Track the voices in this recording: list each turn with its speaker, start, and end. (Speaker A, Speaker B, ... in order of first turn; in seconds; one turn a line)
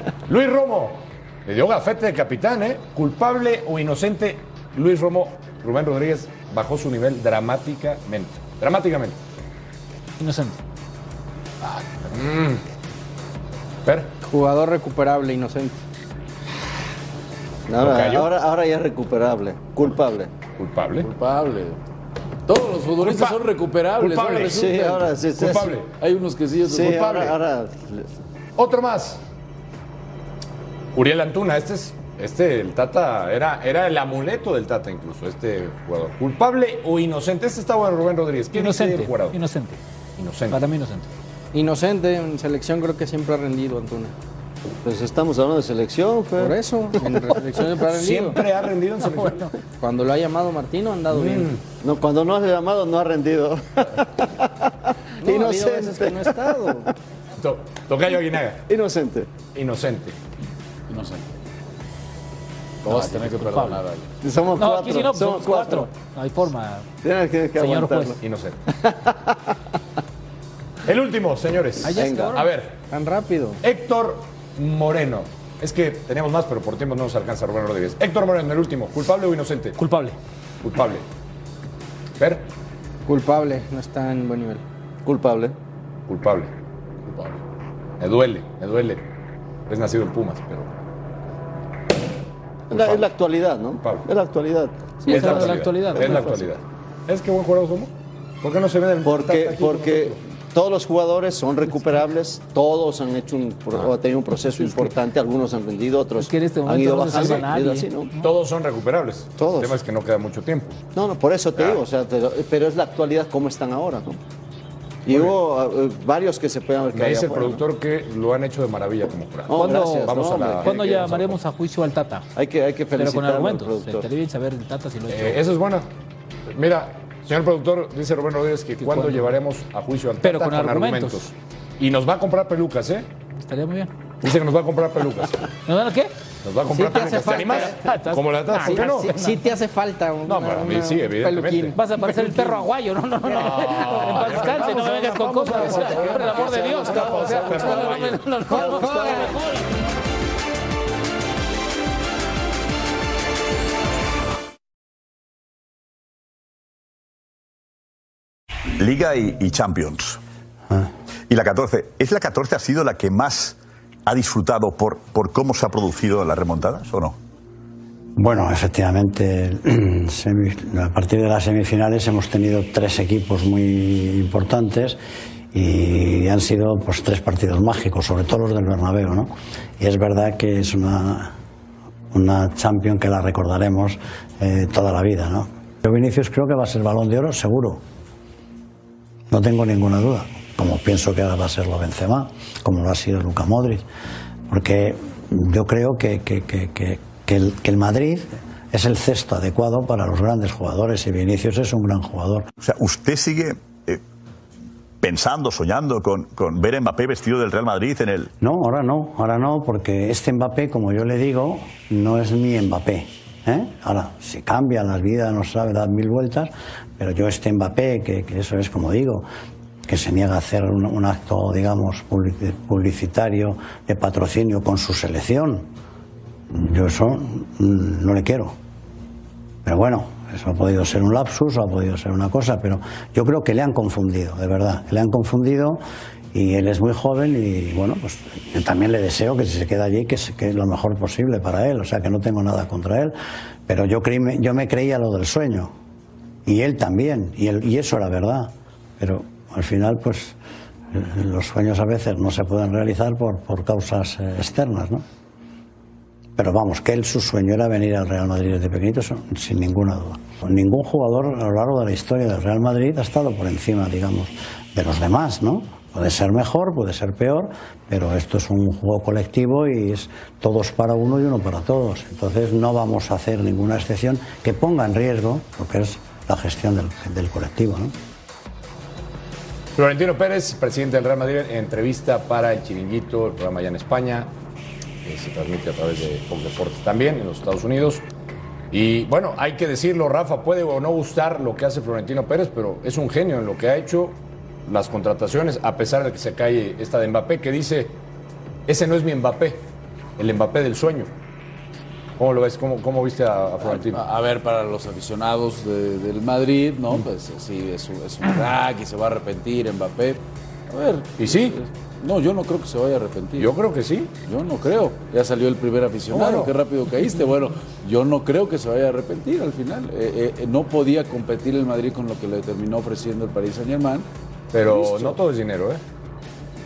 Speaker A: 0.3-9.2
Speaker B: 10.2-10.6
Speaker A: 11.6-12.6
Speaker A: 13.8-14.1
Speaker C: 14.2-15.8
Speaker D: 17.7-20.3
Speaker A: 17.8-18.3
Speaker A: 20.6-21.1
Speaker E: 21.0-21.8
Speaker E: 22.5-25.1
Speaker A: 23.0-23.4
Speaker A: 24.0-24.7
Speaker D: 24.5-25.8
Speaker A: 25.4-25.9
Speaker E: 26.0-27.3
Speaker D: 26.7-28.1
Speaker A: 26.9-27.3
Speaker A: 28.6-29.2
Speaker A: 30.9-39.4
Speaker B: 38.5-39.8
Speaker A: 40.2-40.6
Speaker B: 40.5-41.1
Speaker C: 41.5-44.1
Speaker D: 44.8-46.6
Speaker C: 46.4-48.4
Speaker A: 47.9-49.5
Speaker B: 49.2-49.5
Speaker C: 49.8-51.5
Speaker A: 51.1-51.6
Speaker D: 51.8-56.8
Speaker C: 55.2-56.9
Speaker A: 57.4-58.6
Speaker D: 58.7-59.3
Speaker A: 59.5-60.1
Speaker E: 60.9-61.2
Speaker E: 62.8-64.1
Speaker B: 62.9-63.8
Speaker D: 64.2-65.9
Speaker B: 64.6-66.9
Speaker D: 67.0-68.2
Speaker B: 67.6-68.2
Speaker A: 68.2-68.6
Speaker D: 68.8-69.5
Speaker A: 70.8-72.8
Speaker B: 71.8-72.5
Speaker D: 72.0-72.4
Speaker C: 72.9-73.6
Speaker A: 73.6-79.8
Speaker B: 79.8-80.2
Speaker A: 80.6-81.0
Speaker A: 82.2-82.4
Speaker C: 83.1-84.6
Speaker D: 85.0-85.5
Speaker A: 86.1-86.5
Speaker A: 88.0-89.0
Speaker A: 89.7-90.7
Speaker D: 92.7-95.5
Speaker A: 92.7-93.0
Speaker B: 95.0-96.5
Speaker A: 95.1-97.9
Speaker A: 98.4-100.2
Speaker D: 99.0-108.1
Speaker B: 106.2-108.3
Speaker A: 107.1-107.5
Speaker A: 108.2-110.8
Speaker D: 109.4-109.8
Speaker D: 111.0-114.2
Speaker D: 115.1-117.6
Speaker A: 115.1-115.4
Speaker A: 116.9-121.4
Speaker D: 119.5-121.0
Speaker B: 119.5-122.3
Speaker D: 122.4-124.1
Speaker B: 123.0-125.4
Speaker A: 125.1-125.9
Speaker A: 126.5-133.1
Speaker B: 128.8-129.4
Speaker B: 130.2-131.3
Speaker B: 133.4-133.9
Speaker A: 134.2-135.4
Speaker B: 135.7-136.1
Speaker A: 136.4-139.3
Speaker C: 136.7-137.8
Speaker B: 137.0-139.3
Speaker C: 138.6-142.6
Speaker A: 140.2-141.8
Speaker B: 141.7-149.7
Speaker A: 143.3-148.3
Speaker C: 143.3-144.6
Speaker C: 145.5-147.9
Speaker D: 146.7-147.2
Speaker C: 148.5-149.3
Speaker D: 148.5-149.4
Speaker F: 158.8-160.2
Speaker F: 161.3-167.2
Speaker G: 168.2-175.0
Speaker G: 175.5-181.3
Speaker G: 182.1-187.8
Speaker G: 189.3-193.8
Speaker G: 194.5-202.5
Speaker F: 202.6-204.0
Speaker F: 205.0-208.3
Speaker G: 208.4-219.3
Speaker G: 219.9-225.7
Speaker G: 226.5-228.6
Speaker G: 229.7-235.8
Speaker G: 236.3-243.2
Speaker G: 243.7-245.7
Speaker G: 246.5-250.4
Speaker G: 250.9-255.0
Speaker G: 256.4-277.9
Speaker A: 279.8-284.3
Speaker A: 285.0-288.0
Speaker A: 288.7-298.0
Speaker A: 298.7-299.6
Speaker A: 300.2-301.1
Speaker A: 302.2-304.0
Speaker E: 303.6-313.6
Speaker A: 311.2-311.6
Speaker A: 313.4-314.1
Speaker E: 314.2-324.1
Speaker A: 316.1-316.6
Speaker A: 324.5-325.8
Speaker E: 324.7-325.2